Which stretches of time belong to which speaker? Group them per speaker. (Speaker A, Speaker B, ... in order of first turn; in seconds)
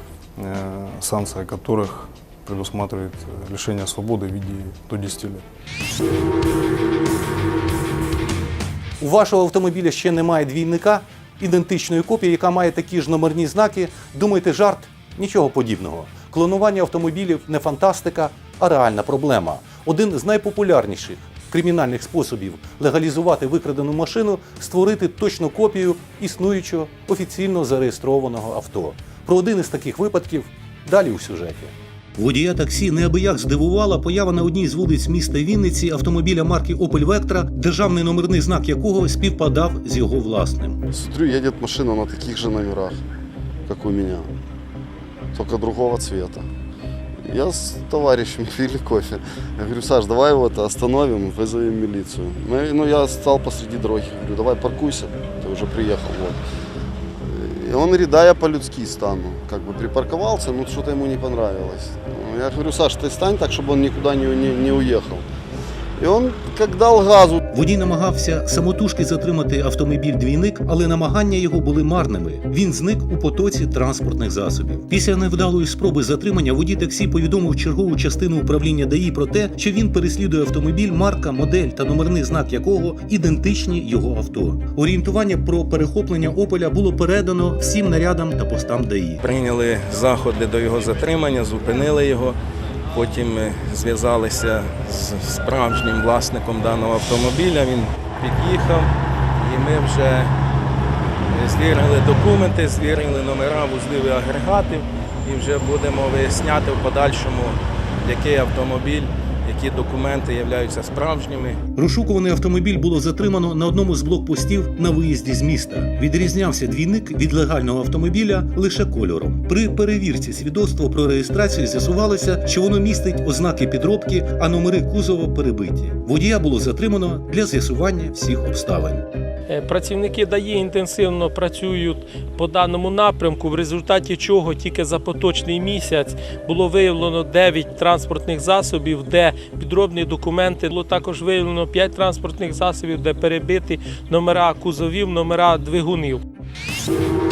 Speaker A: 0.4-5.4
Speaker B: 9.0-40.8, 67.5-89.2, 111.8-129.1
Speaker C: 40.9-43.0, 43.7-44.3, 45.3-46.5, 47.2-56.4, 57.2-65.3, 66.0-67.4
Speaker D: 89.2-92.4, 92.9-100.3, 101.3-111.6
Speaker E: 129.5-146.2